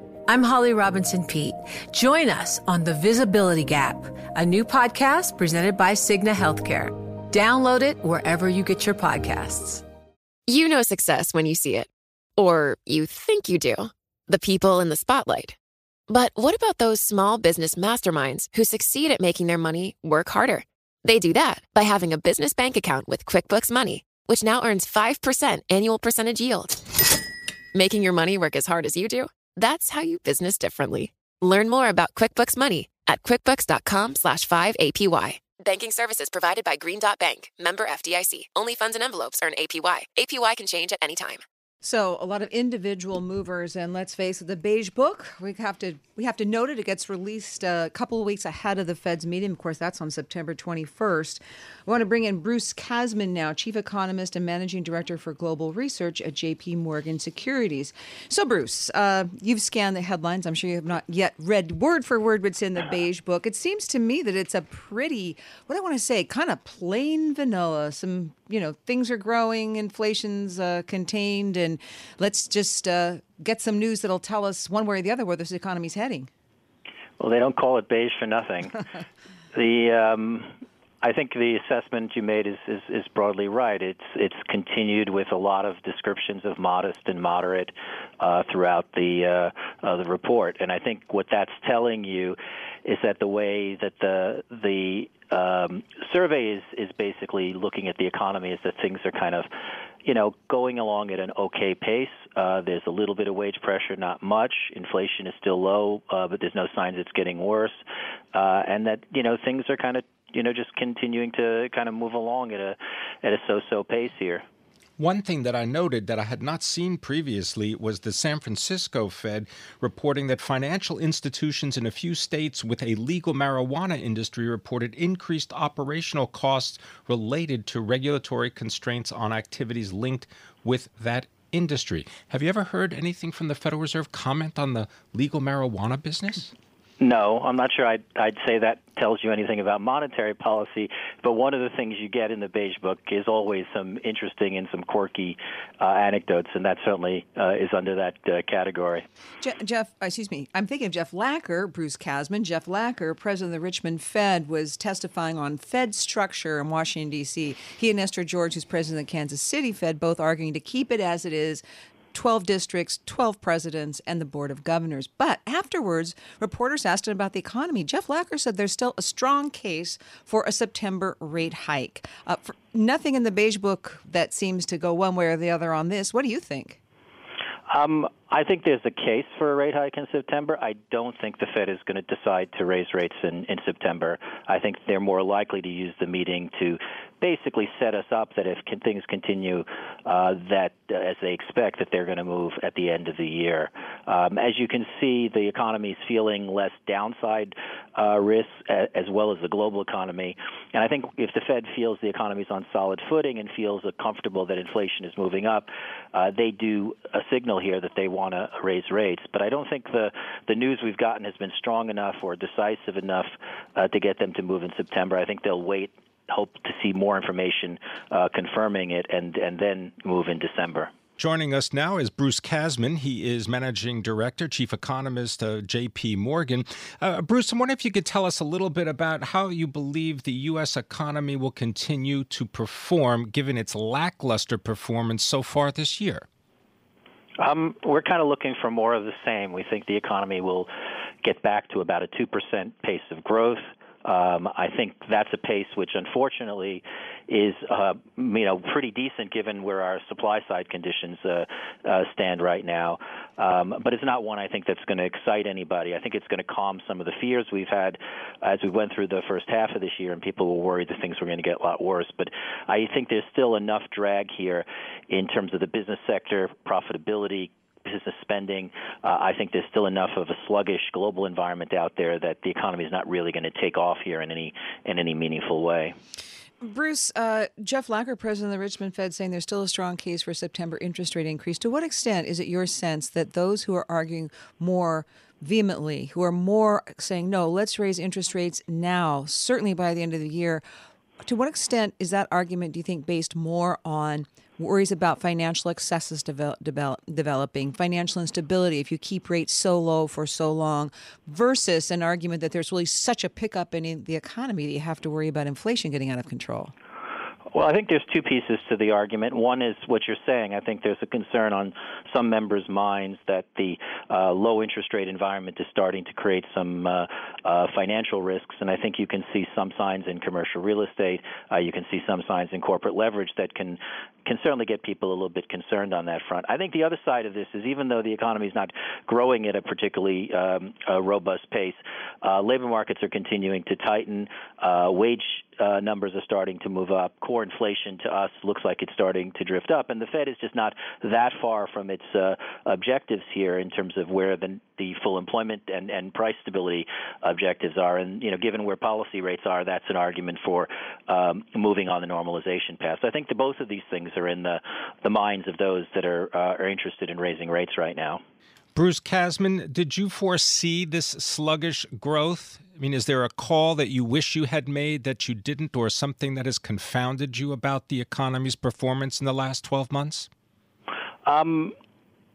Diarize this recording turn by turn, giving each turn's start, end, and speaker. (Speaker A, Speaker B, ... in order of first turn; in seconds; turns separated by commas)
Speaker A: 0.3-9.8, Speaker B: 10.5-15.6, Speaker B: 16.1-26.8, Speaker B: 27.7-41.4, Speaker C: 41.8-76.3, Speaker D: 77.2-78.8, Speaker D: 79.5-99.5, Speaker D: 100.0-107.8, Speaker D: 108.3-114.5, Speaker E: 115.0-136.5, Speaker D: 137.0-149.1, Speaker C: 149.4-176.8, Speaker D: 177.7-220.9, Speaker E: 221.2-236.3, Speaker D: 237.4-240.7, Speaker D: 241.2-275.9, Speaker C: 276.6-290.6, Speaker C: 291.2-306.7, Speaker D: 307.5-358.2, Speaker E: 358.8-370.3, Speaker D: 371.3-371.8